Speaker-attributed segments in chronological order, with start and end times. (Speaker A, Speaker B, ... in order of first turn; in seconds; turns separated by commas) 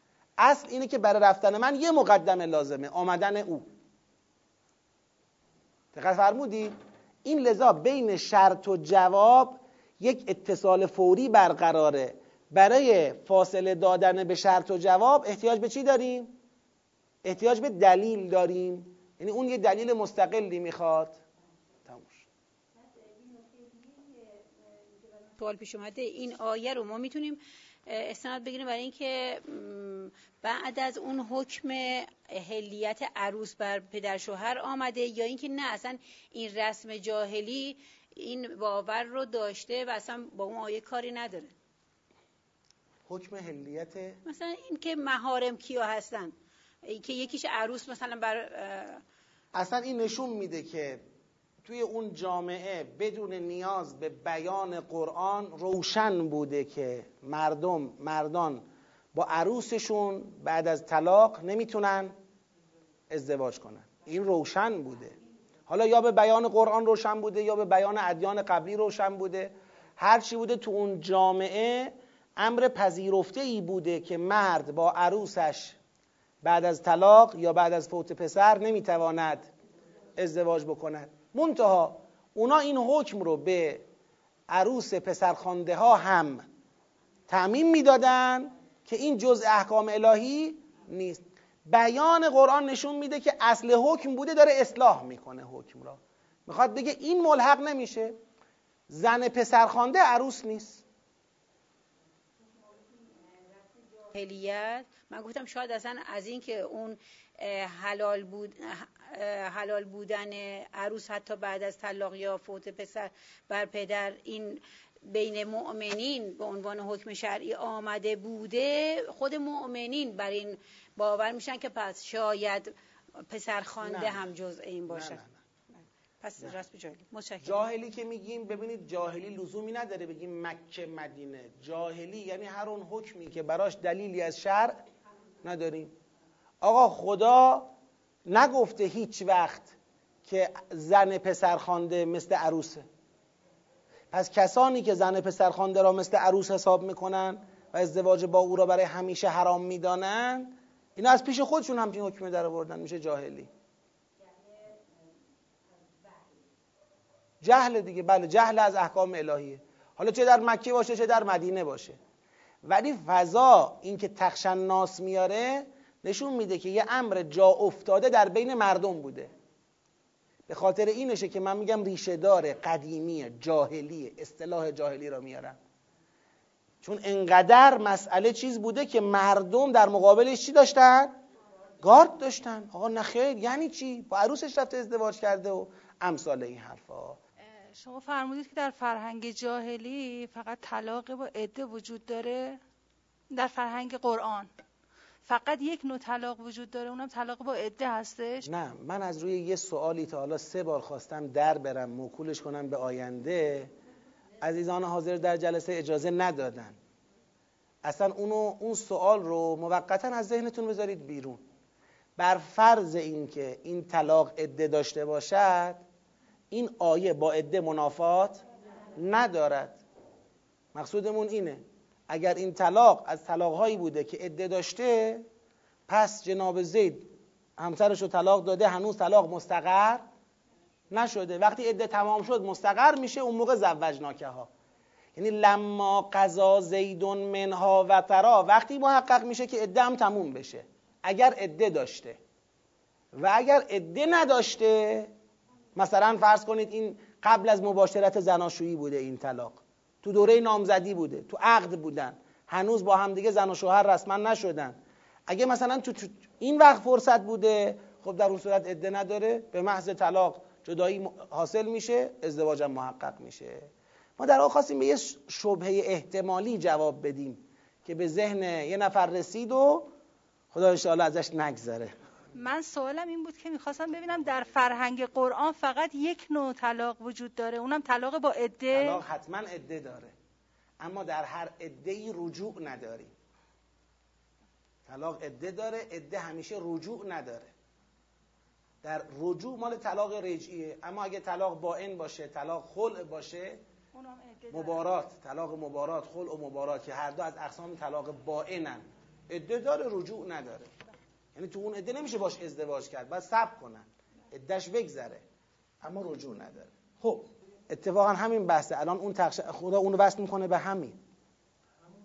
Speaker A: 0.4-3.7, Speaker A: 5.9-16.4, Speaker A: 17.2-21.2, Speaker A: 21.9-22.3, Speaker B: 23.3-23.9, Speaker B: 25.4-41.5, Speaker A: 43.1-44.2, Speaker B: 44.2-49.0, Speaker A: 49.5-51.0, Speaker A: 51.6-62.1, Speaker A: 63.1-65.1, Speaker A: 65.7-75.8, Speaker A: 76.4-79.5, Speaker A: 80.2-83.8, Speaker A: 84.5-86.5, Speaker A: 87.3-98.2, Speaker A: 98.9-100.8, Speaker B: 104.1-122.7, Speaker B: 123.3-125.2, Speaker A: 123.8-124.3, Speaker A: 124.9-125.4, Speaker B: 126.2-127.6, Speaker A: 127.4-134.8, Speaker A: 135.4-135.9, Speaker A: 136.6-137.7, Speaker A: 138.3-142.9, Speaker A: 144.1-153.5, Speaker A: 157.4-162.0, Speaker A: 162.7-169.3, Speaker A: 170.5-175.6, Speaker A: 176.8-181.1, Speaker A: 181.8-187.2, Speaker C: 187.7-192.6, Speaker C: 193.3-194.5, Speaker C: 195.3-198.5, Speaker A: 198.4-203.7, Speaker A: 204.4-206.8, Speaker A: 207.8-211.4, Speaker A: 212.2-215.8, Speaker A: 216.5-218.4, Speaker A: 219.0-219.8, Speaker A: 220.7-225.2, Speaker A: 225.9-230.0, Speaker A: 230.9-234.5, Speaker A: 235.2-242.2, Speaker A: 243.2-245.1, Speaker A: 245.8-254.8, Speaker A: 255.3-269.9, Speaker A: 270.5-271.9, Speaker C: 272.4-279.0, Speaker A: 278.7-280.1, Speaker A: 280.8-283.1, Speaker A: 284.9-287.5, Speaker A: 288.8-293.6, Speaker C: 293.9-294.8, Speaker A: 294.5-300.7, Speaker A: 301.4-305.2, Speaker A: 305.8-311.0